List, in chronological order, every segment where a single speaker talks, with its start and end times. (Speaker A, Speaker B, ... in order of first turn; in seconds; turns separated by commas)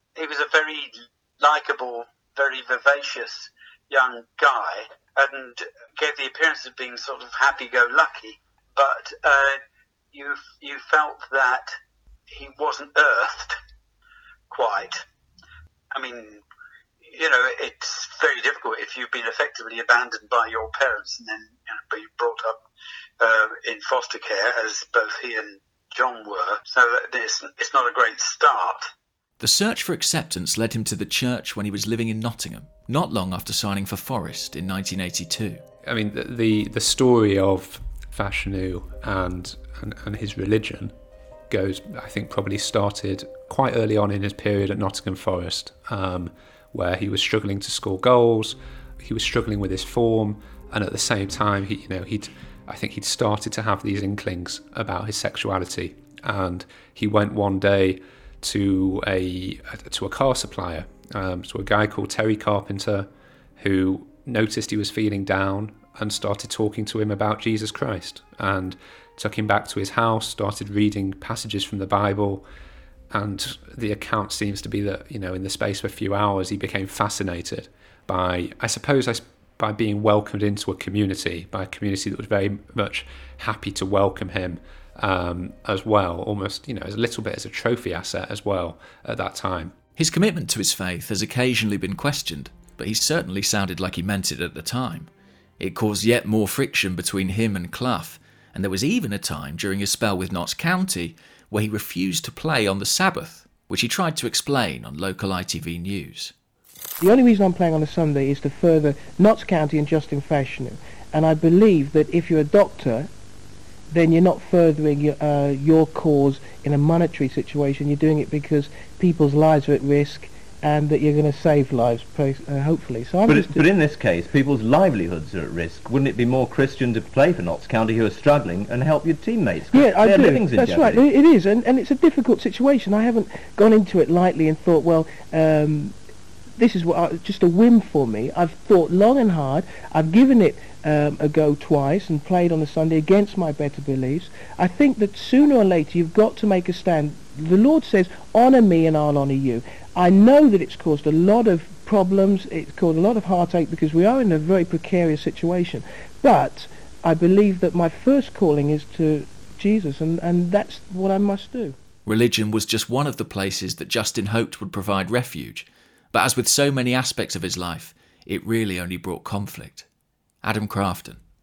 Speaker A: 0.1-9.6, Speaker A: 10.1-11.7, Speaker A: 12.3-13.6, Speaker A: 14.5-15.0, Speaker A: 15.9-16.4, Speaker A: 17.0-22.6, Speaker A: 23.2-28.9, Speaker B: 29.4-35.6, Speaker C: 35.9-40.9, Speaker C: 41.5-72.5, Speaker C: 73.1-89.8, Speaker B: 90.0-106.3, Speaker D: 107.0-113.1, Speaker D: 113.9-123.6, Speaker E: 123.3-131.1, Speaker D: 129.7-135.9, Speaker D: 136.6-161.8, Speaker B: 162.0-169.8, Speaker B: 170.4-171.2